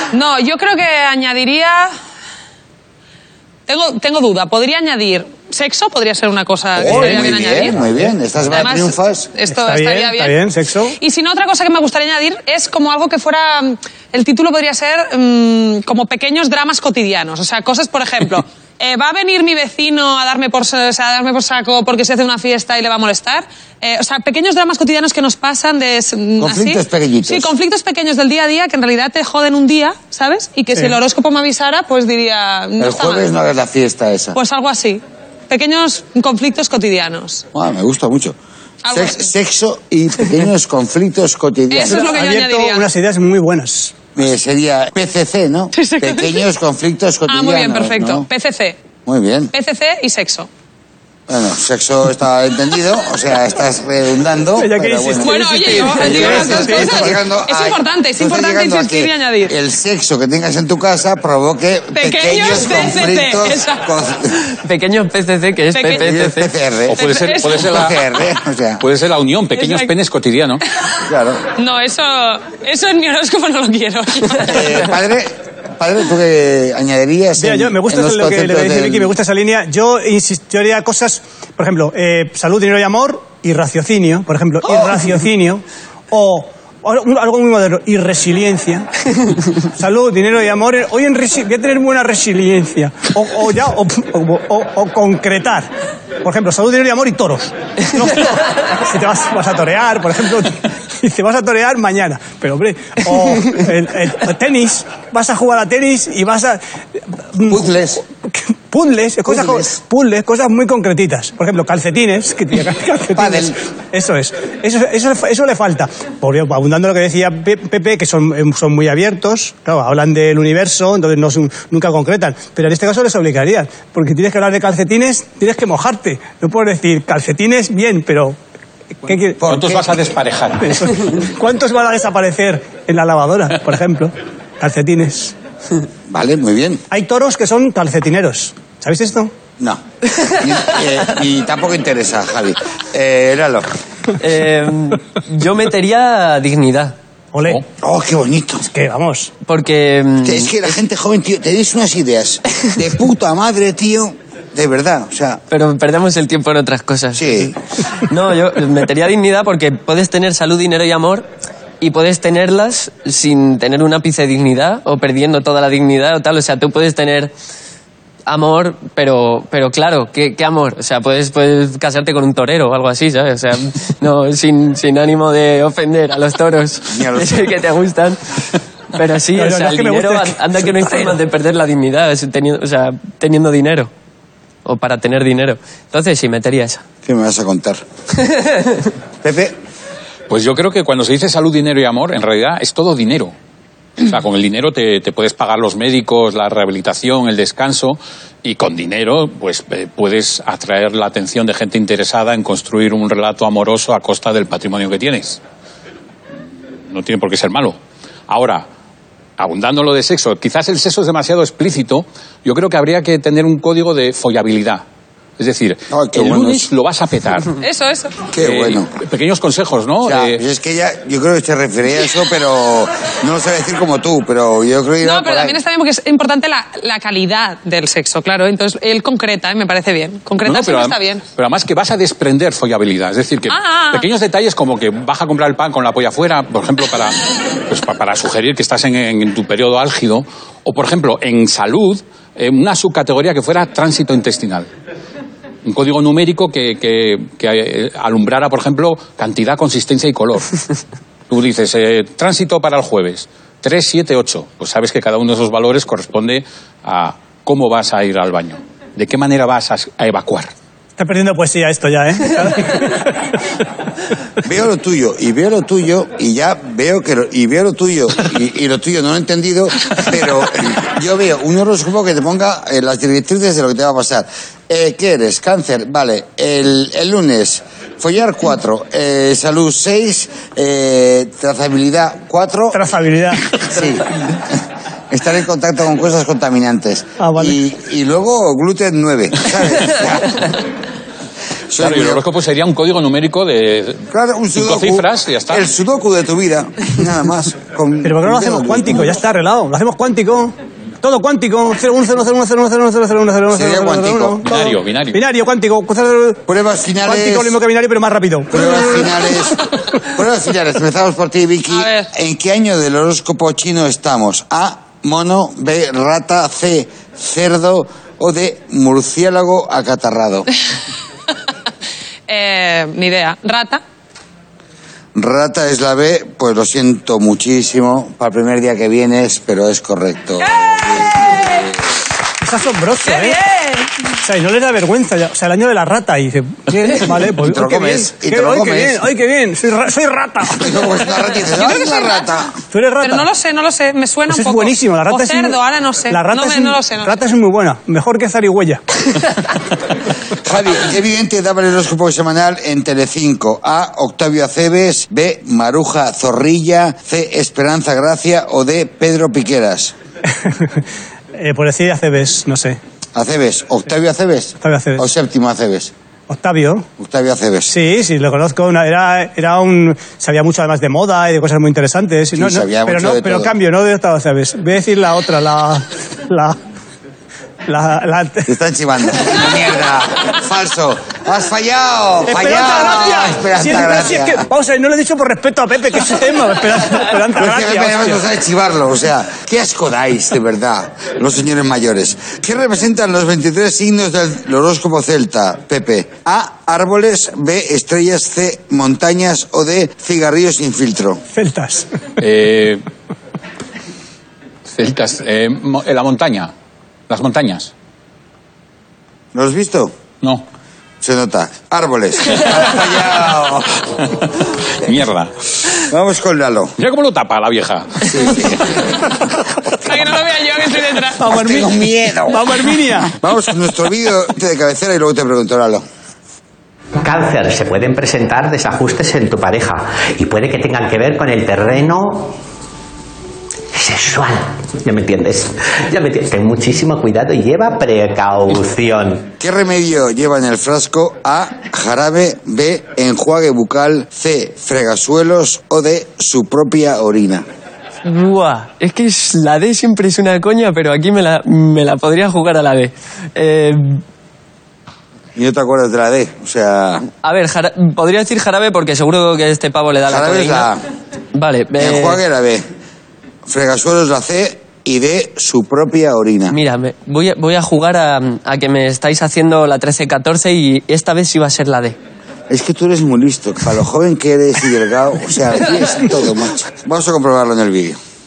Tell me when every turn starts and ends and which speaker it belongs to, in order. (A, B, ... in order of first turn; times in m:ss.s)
0:00.1-0:02.0 A
0:03.7-0:07.8 A
0:06.8-0:09.3 B
0:06.9-0:07.3 C
0:08.5-0:33.3 A
0:09.5-0:11.0 C
0:26.4-0:27.5 B
0:32.8-0:34.4 B
0:34.3-0:37.4 A
0:37.5-0:38.4 B
0:38.8-0:39.3 A
0:38.9-0:42.0 B
0:41.7-0:42.9 A
0:41.8-0:43.9 C
0:44.2-0:48.3 B
0:45.7-0:46.4 A
0:47.3-0:48.8 A
0:49.1-0:49.5 B
0:49.5-0:50.5 A
0:51.3-1:04.4 B
0:54.6-0:57.2 C
0:55.2-0:59.6 A
1:01.9-1:03.9 A
1:04.6-1:06.5 D
1:05.7-1:06.1 A
1:05.9-1:07.0 B
1:06.9-1:08.0 E
1:07.0-1:07.6 A
1:07.5-1:08.8 B
1:08.8-1:10.6 E
1:09.6-1:09.9 A
1:11.1-1:11.4 B
1:11.6-1:14.8 A
1:14.4-1:19.1 B
1:17.4-1:28.9 C
1:29.6-1:35.7 C
1:36.2-1:46.6 C
1:47.2-1:47.7 C
1:47.4-1:48.0 B
1:48.3-2:08.4 C
1:49.3-1:49.7 B
1:53.2-1:53.6 B
2:09.0-2:09.4 C
2:09.4-2:09.9 B
2:09.4-2:11.1 E
2:10.6-2:15.3 C
2:16.1-2:16.8 B
2:16.9-2:19.3 C
2:19.6-2:23.7 B
2:24.2-2:27.0 D
2:27.3-2:27.6 C
2:27.8-2:28.7 B
2:28.7-2:29.3 C
2:29.4-2:30.6 D
2:30.2-2:35.4 B
2:35.5-2:37.4 D
2:37.1-2:37.6 B
2:38.0-2:41.3 D
2:41.8-2:47.3 D
2:48.3-3:03.9 D
2:56.9-2:57.5 B
2:59.3-3:01.2 C
3:04.6-3:06.8 D
3:07.0-3:07.8 B
3:08.2-3:08.9 D
3:09.2-3:09.6 B
3:10.3-3:13.3 E
3:14.0-3:25.4 E
3:26.9-3:28.7 E
3:29.4-3:34.8 E
3:35.4-3:37.6 E
3:35.9-3:36.7 B
3:37.6-3:38.2 A
3:38.3-3:38.9 B
3:38.4-3:40.4 E
3:40.0-3:45.6 B
3:45.0-3:51.2 A
3:50.4-4:04.7 E
3:53.5-3:54.1 A
4:05.6-4:10.6 E
4:11.3-4:20.5 E
4:21.0-4:23.3 C
4:24.4-4:42.8 B
4:42.7-4:43.5 C
4:43.6-4:44.6 B
4:45.1-4:50.5 B
4:47.2-4:47.6 C
4:51.7-4:52.2 B
4:51.8-4:55.7 E
4:54.1-4:59.2 B
4:58.0-5:06.4 C
5:03.5-5:04.4 B
5:04.4-5:05.2 E
5:06.5-5:07.6 B
5:07.0-5:09.3 C
5:08.5-5:20.5 B
5:11.7-5:12.1 A
5:22.3-5:23.8 A
5:25.2-5:31.8 B
5:30.4-5:31.7 A
5:32.4-5:33.4 C
5:33.0-5:33.9 A
5:34.2-5:40.8 C
5:37.4-5:39.0 B
5:40.5-5:42.5 B
5:41.4-5:42.3 A
5:42.7-5:43.3 C
5:43.0-5:47.1 A
5:44.3-5:45.6 C
5:46.1-5:48.8 C
5:50.4-6:00.0 B
6:00.5-6:00.8 C
6:01.4-6:02.8 C
6:03.2-6:05.9 B
6:04.6-6:05.1 C
6:06.3-6:06.9 C
6:07.0-6:07.7 B
6:07.7-6:16.6 C
6:12.4-6:13.5 B
6:17.7-6:18.6 C
6:18.5-6:24.5 B
6:22.2-6:28.2 C
6:27.3-6:41.2 B
6:41.3-6:42.0 C
6:42.2-6:42.8 E
6:44.7-6:46.5 E
6:47.1-6:47.7 E
6:49.3-6:49.9 B
6:51.0-6:53.9 B
6:54.8-6:55.3 E
6:55.8-6:56.7 B
6:56.8-6:58.5 E
6:58.0-6:59.0 B
6:59.7-7:01.2 A
7:01.2-7:03.1 C
7:01.2-7:05.8 B
7:07.0-7:12.3 F
7:13.7-7:19.3 F
7:19.4-7:27.5 B
7:28.0-7:34.0 D
7:35.4-7:37.1 B
7:37.2-7:40.7 D
7:40.1-7:40.8 B
7:41.3-7:42.2 D
7:41.8-7:42.6 B
7:43.5-7:46.6 B
7:46.5-7:52.0 D
7:52.5-7:58.0 B